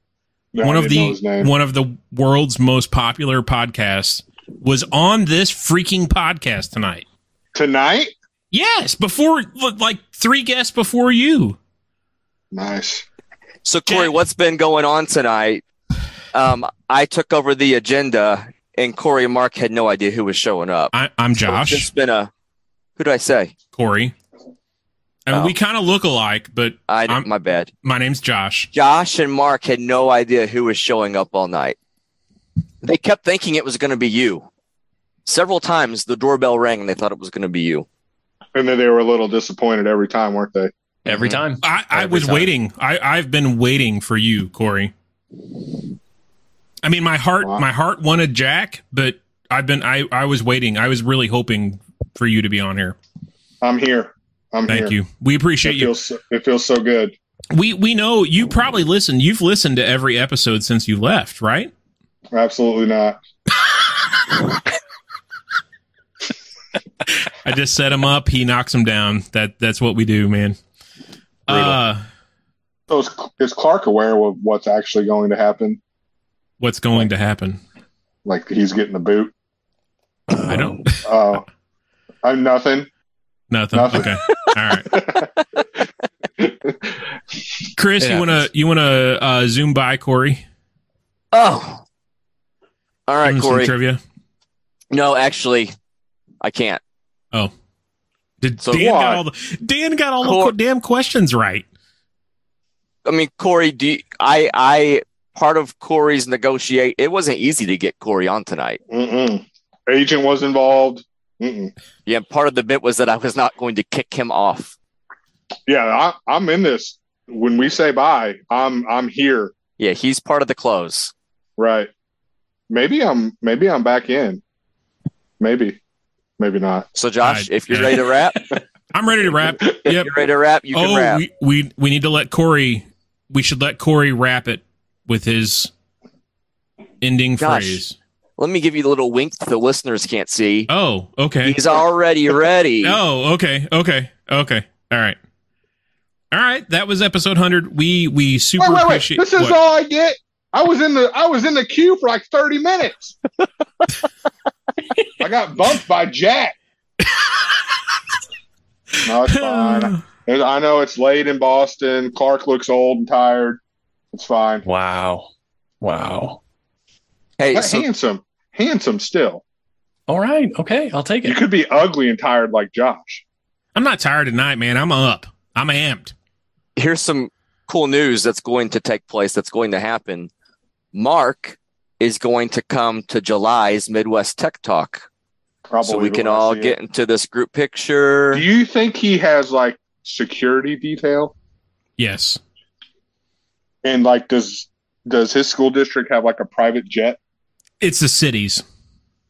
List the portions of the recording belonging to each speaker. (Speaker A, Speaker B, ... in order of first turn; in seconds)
Speaker A: 0.5-1.5, 7.5-8.1, 12.5-13.0, 38.5-40.7, 53.6-54.9, 55.6-57.1, 62.3-63.2, 72.9-75.8, 78.2-79.3, 81.0-81.4, 82.2-82.9, 83.7-84.1, 84.9-85.3, 86.4-86.9, 98.7-99.2, 108.9-111.7, 115.7-119.5, 121.6-121.9, 122.7-124.4, 125.4-125.8, 126.4-126.9, 148.6-153.1, 155.2-156.5, 159.0-163.6, 164.1-164.6, 167.5-169.4, 171.2-173.2, 185.7-186.8, 188.3-191.3, 193.8-197.2
Speaker B: 0.6-7.0, 8.5-11.6, 20.9-21.9, 23.7-24.1, 25.3-27.3, 27.8-28.7, 41.6-44.9, 46.8-53.0, 54.7-55.9, 57.5-61.7, 67.4-70.6, 71.5-72.0, 76.6-77.6, 80.5-81.1, 83.5-85.0, 87.8-90.4, 93.2-94.0, 98.4-101.6, 127.2-128.1, 128.9-130.1, 130.7-135.7, 137.0-137.9, 140.7-141.6, 142.8-145.2, 146.3-149.6, 159.3-160.0, 173.7-176.1, 192.0-192.4, 197.8-198.6
Speaker C: 13.6-15.6, 16.3-22.3, 23.0-23.5, 26.9-27.7, 28.7-31.8, 32.8-34.5, 35.2-37.9, 91.3-91.8, 93.1-93.7, 94.9-95.7, 96.4-96.8, 100.2-100.5, 103.0-108.8, 112.0-114.7, 119.8-121.1, 126.9-128.4, 129.8-131.2, 137.4-137.8, 138.4-140.7, 141.4-143.0, 167.4-167.9, 176.8-180.3, 180.9-185.1, 185.8-188.4
Speaker D: 41.0-42.5, 71.5-71.8, 80.4-80.8, 88.0-88.3, 164.6-165.3, 165.8-166.4, 170.1-171.4